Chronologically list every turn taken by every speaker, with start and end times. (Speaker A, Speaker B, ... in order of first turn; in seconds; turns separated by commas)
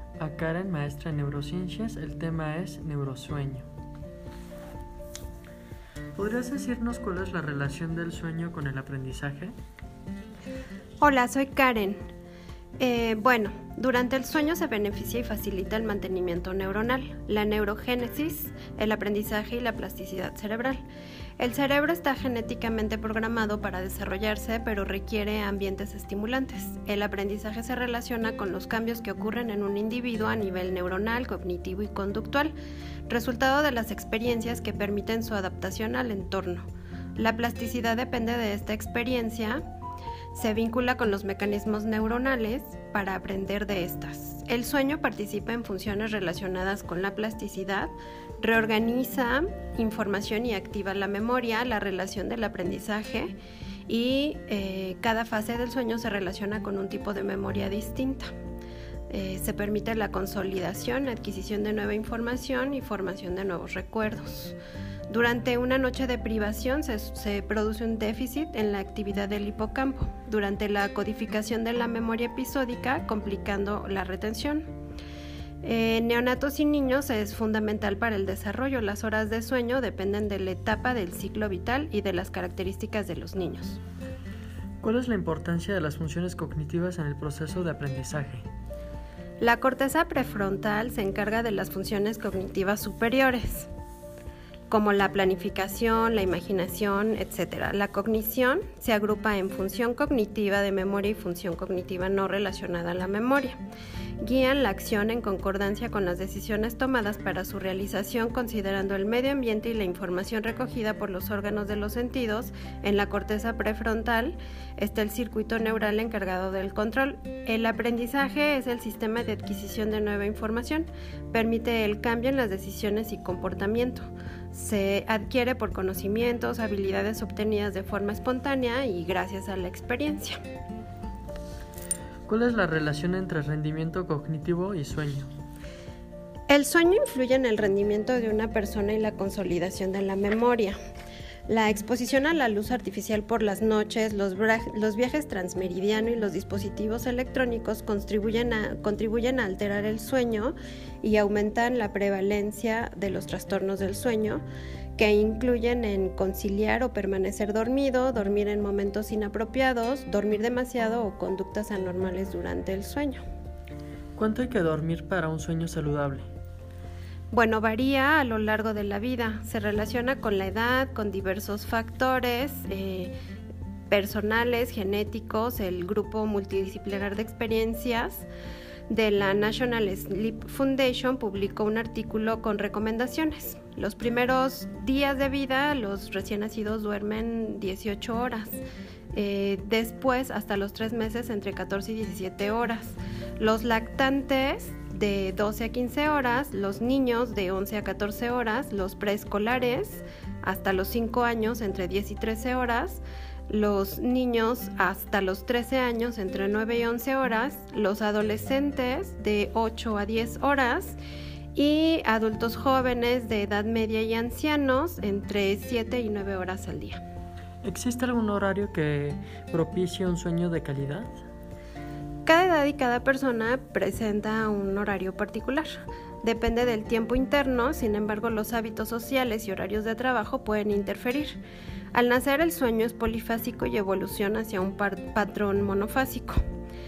Speaker A: 0.2-3.6, Speaker A: 6.2-9.5, Speaker B: 11.0-12.0, Speaker B: 12.8-20.8, Speaker B: 21.4-32.5, Speaker B: 33.1-39.6, Speaker B: 40.3-53.3, Speaker B: 53.9-58.3, Speaker B: 59.1-64.6, Speaker B: 65.1-74.7, Speaker B: 75.6-83.8, Speaker A: 84.8-88.4, Speaker B: 89.4-93.7, Speaker B: 94.7-103.6, Speaker B: 104.2-130.4, Speaker A: 132.3-135.3, Speaker B: 136.5-140.8, Speaker B: 141.5-154.4, Speaker B: 154.9-163.2, Speaker A: 164.2-166.3, Speaker B: 167.3-173.1, Speaker B: 173.9-178.3, Speaker B: 178.9-188.6, Speaker B: 189.1-211.0, Speaker B: 211.5-217.0, Speaker A: 217.6-221.1, Speaker B: 222.2-231.4, Speaker B: 231.9-236.4